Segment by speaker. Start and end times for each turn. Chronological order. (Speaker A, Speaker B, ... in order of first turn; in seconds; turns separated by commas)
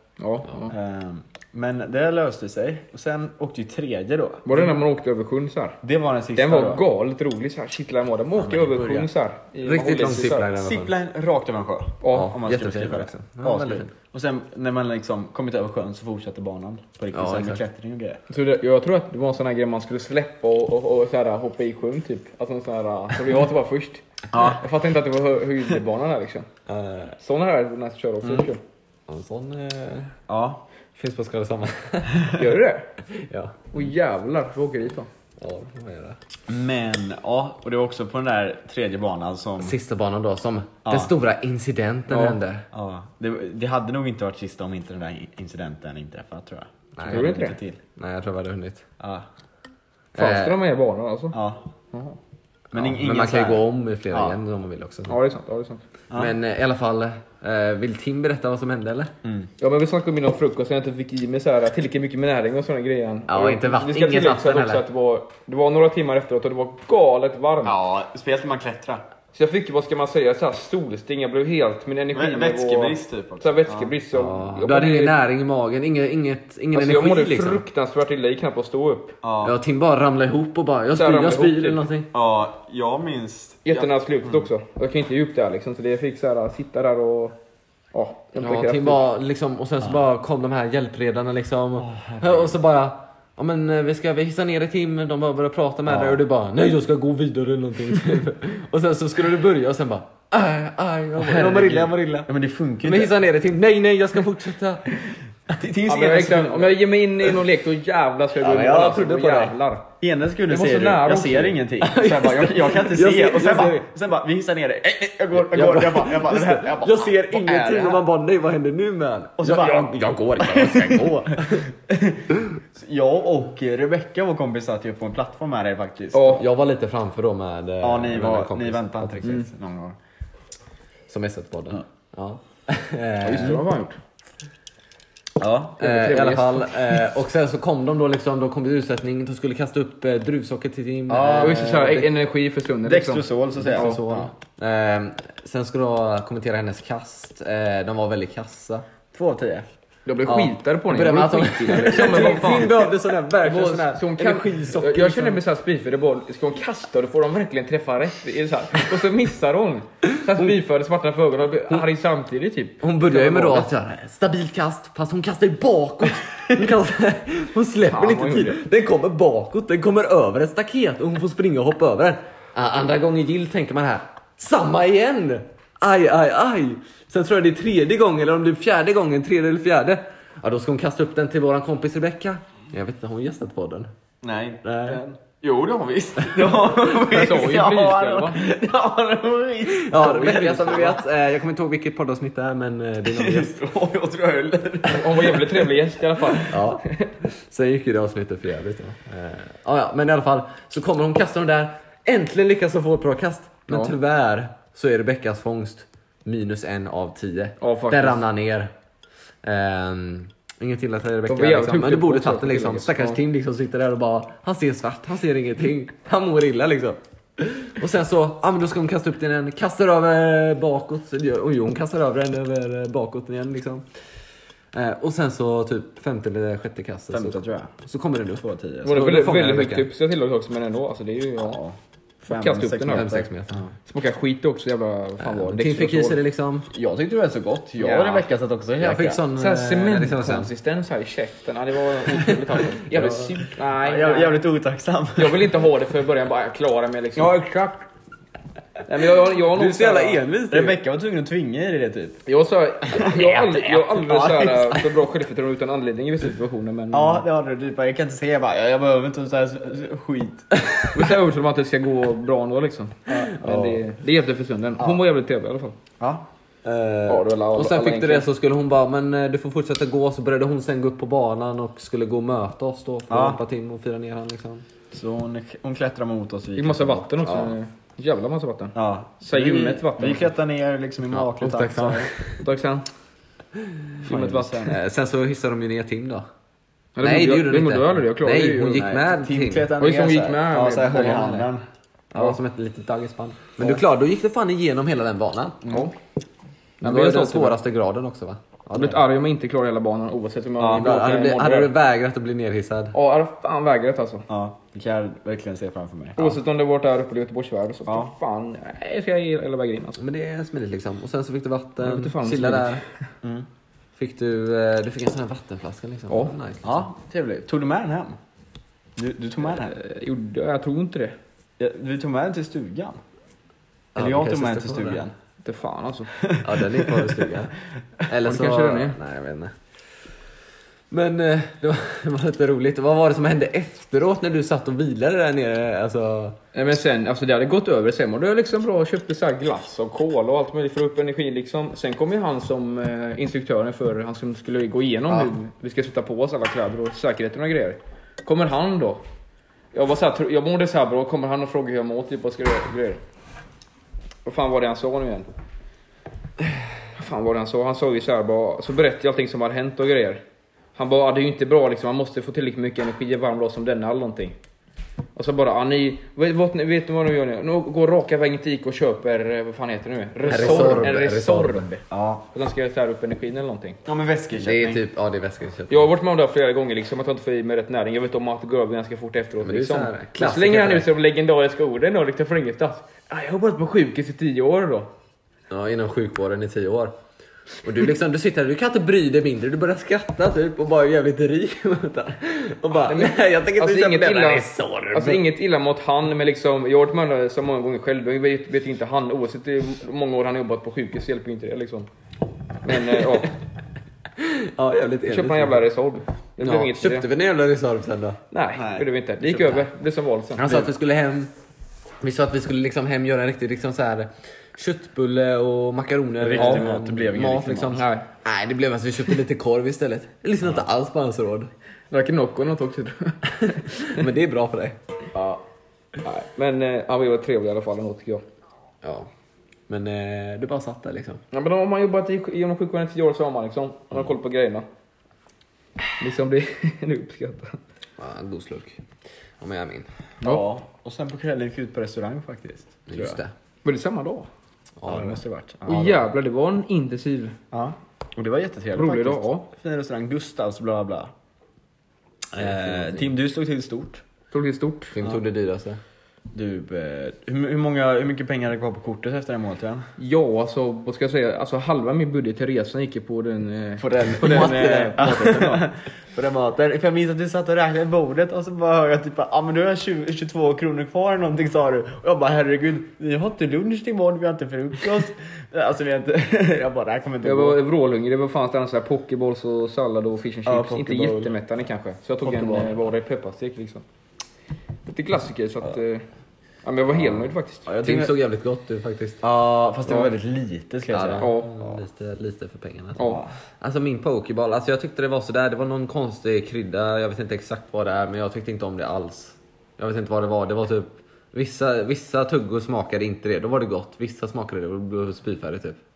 Speaker A: 0.2-0.7, Speaker B: 0.7-4.8, Speaker A: 4.5-5.8, Speaker B: 5.8-6.8, Speaker A: 6.4-10.5, Speaker B: 8.4-9.1, Speaker C: 9.6-10.9, Speaker B: 10.6-18.2, Speaker A: 12.0-12.3, Speaker C: 12.1-13.9, Speaker C: 17.1-17.6, Speaker A: 18.3-26.5, Speaker B: 24.3-24.6, Speaker C: 26.7-27.2, Speaker A: 27.2-28.6, Speaker C: 29.1-30.1, Speaker B: 30.3-30.6, Speaker C: 31.0-32.2, Speaker A: 32.3-32.9, Speaker C: 33.1-33.8, Speaker A: 33.7-35.1, Speaker C: 35.4-36.2, Speaker B: 36.5-39.8, Speaker C: 39.6-42.7, Speaker B: 40.9-41.1, Speaker A: 42.1-42.4, Speaker B: 42.7-47.8, Speaker C: 47.0-47.3, Speaker A: 47.1-47.6, Speaker C: 48.0-48.9, Speaker B: 49.0-49.3, Speaker C: 50.1-50.6, Speaker A: 50.2-51.4, Speaker B: 51.3-51.6, Speaker A: 51.9-52.2, Speaker B: 52.7-54.4, Speaker C: 52.7-55.2, Speaker A: 55.1-55.8, Speaker C: 56.1-59.1, Speaker B: 59.2-59.5, Speaker A: 59.6-67.8, Speaker C: 63.3-64.8, Speaker B: 67.6-69.0, Speaker A: 69.3-75.2, Speaker B: 72.1-73.9, Speaker C: 74.1-77.7, Speaker A: 76.7-79.2, Speaker B: 79.2-79.5, Speaker C: 79.4-82.1, Speaker A: 81.0-81.8, Speaker B: 82.1-84.5, Speaker A: 83.7-87.4, Speaker A: 87.9-89.0, Speaker C: 88.4-102.3, Speaker B: 91.8-92.6, Speaker B: 95.9-96.2, Speaker B: 101.2-103.2, Speaker C: 102.8-104.8, Speaker B: 105.5-106.8, Speaker A: 105.9-109.9, Speaker C: 108.4-109.6, Speaker B: 110.0-118.0, Speaker A: 110.5-111.6, Speaker C: 111.8-113.9, Speaker C: 115.3-121.7, Speaker B: 119.4-126.4, Speaker A: 126.1-126.5, Speaker C: 126.3-129.4, Speaker B: 127.8-130.0, Speaker A: 129.2-129.5, Speaker C: 131.1-133.6, Speaker A: 133.2-134.0, Speaker B: 135.4-135.8, Speaker C: 135.8-141.9, Speaker A: 135.8-137.0, Speaker B: 141.1-142.1, Speaker A: 141.4-144.0, Speaker B: 142.8-144.3, Speaker C: 143.6-148.8, Speaker B: 149.1-149.7, Speaker A: 150.1-152.8, Speaker C: 150.2-155.4, Speaker A: 153.4-163.7, Speaker C: 162.8-183.9, Speaker A: 167.9-168.6, Speaker B: 184.2-191.0, Speaker C: 184.6-185.0, Speaker C: 186.2-186.6, Speaker A: 187.0-188.4, Speaker C: 189.7-193.6, Speaker A: 190.0-190.9, Speaker B: 193.1-196.4, Speaker A: 194.9-196.9, Speaker C: 196.5-208.7, Speaker A: 203.7-203.9, Speaker A: 207.6-208.2, Speaker C: 209.4-223.9, Speaker A: 211.3-213.2, Speaker C: 224.7-229.9, Speaker B: 227.1-227.7, Speaker B: 228.4-229.0, Speaker A: 228.8-231.6, Speaker B: 231.4-233.7, Speaker A: 232.3-233.1, Speaker C: 232.9-233.6, Speaker A: 233.9-236.2, Speaker C: 235.2-236.7, Speaker B: 236.7-239.2, Speaker A: 237.8-238.3, Speaker C: 238.8-240.5, Speaker A: 239.3-244.4, Speaker C: 242.3-243.3, Speaker B: 243.8-245.7, Speaker A: 245.2-247.5, Speaker B: 247.2-247.8, Speaker A: 248.9-250.3, Speaker C: 249.5-250.8, Speaker B: 250.5-252.2, Speaker A: 252.3-257.2, Speaker B: 252.9-254.9, Speaker C: 253.1-253.8, Speaker B: 256.9-260.5, Speaker A: 260.9-265.8, Speaker B: 263.1-263.4, Speaker C: 263.4-263.9, Speaker B: 266.0-266.2, Speaker C: 266.6-274.6, Speaker A: 267.1-268.3, Speaker B: 273.1-273.4, Speaker B: 274.9-277.1, Speaker A: 276.6-280.3, Speaker C: 277.2-277.6, Speaker B: 278.8-282.1, Speaker C: 281.1-282.4, Speaker A: 282.4-282.9, Speaker B: 284.0-284.8, Speaker A: 284.1-284.8, Speaker C: 284.6-286.3, Speaker A: 287.0-288.8, Speaker C: 287.0-289.7, Speaker B: 288.6-291.6, Speaker A: 289.8-291.5, Speaker C: 292.1-295.8, Speaker B: 295.6-295.9, Speaker A: 296.8-297.6, Speaker C: 296.8-299.0, Speaker A: 298.7-301.7, Speaker B: 300.6-300.9, Speaker C: 300.7-302.9, Speaker A: 302.9-304.3, Speaker B: 304.3-306.2, Speaker A: 306.2-310.0, Speaker C: 310.0-312.8, Speaker A: 311.8-313.0, Speaker C: 314.0-316.9, Speaker A: 316.1-316.4, Speaker B: 316.6-318.2, Speaker B: 319.0-319.8, Speaker A: 319.5-321.2, Speaker B: 321.6-323.0, Speaker C: 323.9-325.0, Speaker B: 324.0-325.1, Speaker A: 325.4-326.1, Speaker B: 326.2-327.3, Speaker C: 326.4-327.5, Speaker C: 328.1-329.6, Speaker A: 328.2-329.0, Speaker C: 330.9-336.4, Speaker A: 336.5-349.0, Speaker A: 349.7-353.0, Speaker A: 354.2-355.3, Speaker A: 356.9-360.2, Speaker A: 360.8-364.4, Speaker A: 365.2-373.8, Speaker C: 370.3-371.7, Speaker B: 370.3-370.9, Speaker B: 371.9-372.2, Speaker B: 373.9-374.8, Speaker C: 374.4-375.9, Speaker A: 375.7-384.9, Speaker C: 379.4-380.9, Speaker C: 385.5-386.9, Speaker C: 387.6-395.2, Speaker A: 392.9-401.9, Speaker A: 402.6-403.4, Speaker C: 402.7-403.3, Speaker C: 404.2-405.6, Speaker A: 405.1-407.1, Speaker C: 406.4-408.2, Speaker A: 408.3-410.4, Speaker B: 408.5-408.9, Speaker C: 409.2-409.6, Speaker C: 410.4-411.3, Speaker C: 412.0-421.5, Speaker B: 416.2-417.9, Speaker A: 416.4-416.6, Speaker A: 417.8-418.1, Speaker A: 421.9-423.9, Speaker C: 423.3-424.8, Speaker A: 426.0-428.2, Speaker C: 428.8-429.1, Speaker C: 429.7-431.2, Speaker A: 431.3-434.7, Speaker A: 436.0-437.6, Speaker C: 438.0-438.8, Speaker C: 439.4-439.9, Speaker B: 440.2-443.2, Speaker C: 442.9-443.3, Speaker A: 443.6-444.3, Speaker C: 444.8-445.2, Speaker B: 444.9-445.9, Speaker A: 445.7-447.4, Speaker B: 447.5-451.1, Speaker A: 448.8-449.5, Speaker B: 452.3-454.0, Speaker C: 452.4-453.1, Speaker A: 454.3-455.0, Speaker C: 454.9-455.8, Speaker B: 456.3-459.9, Speaker A: 460.0-465.7, Speaker B: 463.8-477.6, Speaker C: 464.2-465.1, Speaker A: 477.2-483.8, Speaker B: 480.5-481.4, Speaker B: 482.2-482.8, Speaker A: 484.9-486.1, Speaker A: 486.6-487.7, Speaker C: 487.0-487.3, Speaker B: 487.7-488.1, Speaker C: 487.8-489.2, Speaker B: 489.2-491.8, Speaker C: 490.9-505.8, Speaker A: 491.2-491.5, Speaker A: 493.0-493.2, Speaker B: 493.0-493.3